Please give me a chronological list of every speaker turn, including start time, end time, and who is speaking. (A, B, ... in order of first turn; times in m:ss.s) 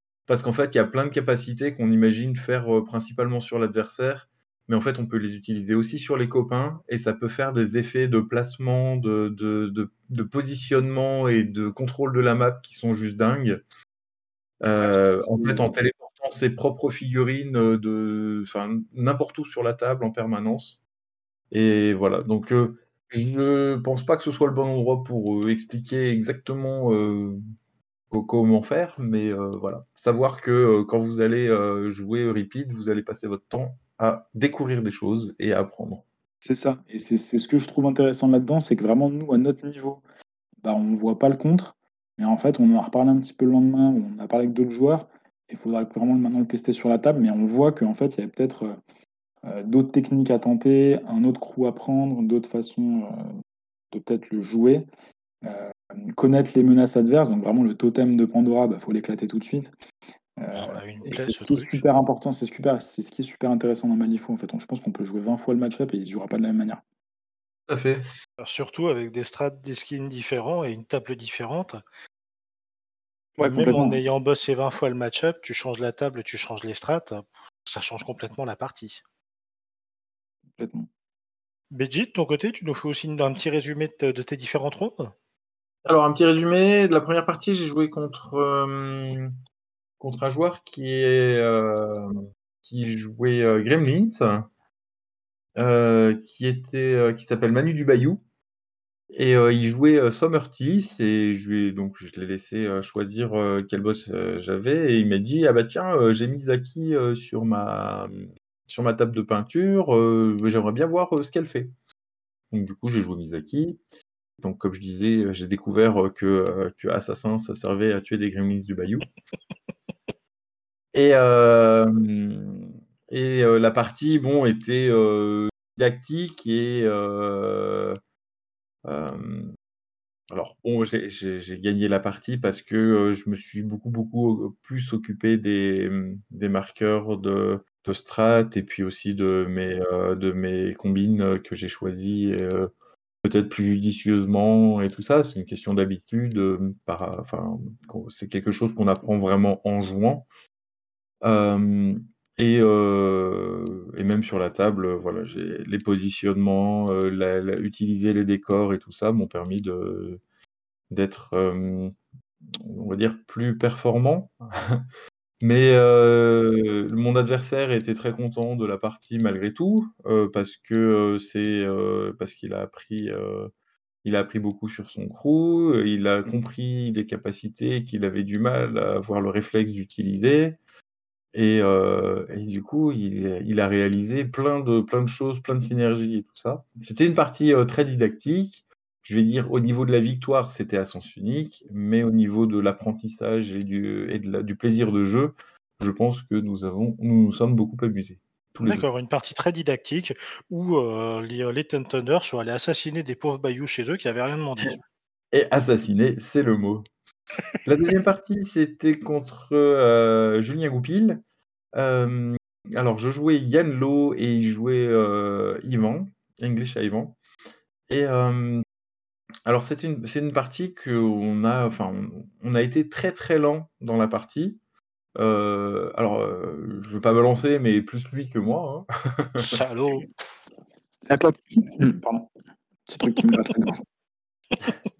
0:00.3-0:13.6 A
0:14.6-0:20.8 A
0:14.8-0:15.7 B
0:21.5-0:27.4 A
0:28.1-0:36.0 A
0:36.4-0:40.0 B
0:40.6-0:48.8 B
0:49.4-0:53.3 B
0:53.9-0:54.8 B
0:55.4-0:59.7 B
1:00.4-1:06.8 B
1:00.5-1:01.8 C
1:07.7-1:08.0 A
1:08.4-1:11.8 C
1:13.4-1:14.0 B
1:13.4-1:19.0 C
1:20.6-1:20.9 B
1:21.7-1:25.1 C
1:25.8-1:29.3 A
1:30.0-1:32.1 A
1:32.6-1:34.5 A
1:35.6-1:38.2 A
1:39.1-1:51.7 A
1:52.5-1:53.8 A
1:54.4-1:59.1 A
2:00.9-2:08.0 A
2:08.8-2:09.5 A
2:10.3-2:22.7 A
2:23.2-2:30.3 A
2:31.2-2:40.2 A
2:40.9-2:41.9 A
2:42.6-2:44.8 A
2:45.4-2:53.5 A
2:54.0-3:00.6 A
3:01.3-3:18.8 A
3:18.6-3:24.8 C
3:25.3-3:26.8 A
3:27.6-3:31.2 A
3:31.7-3:37.2 A
3:37.9-3:38.6 A
3:39.4-3:44.6 A
3:45.2-3:49.6 A
3:49.4-3:50.0 C
3:51.1-3:52.3 B
3:52.9-3:53.8 B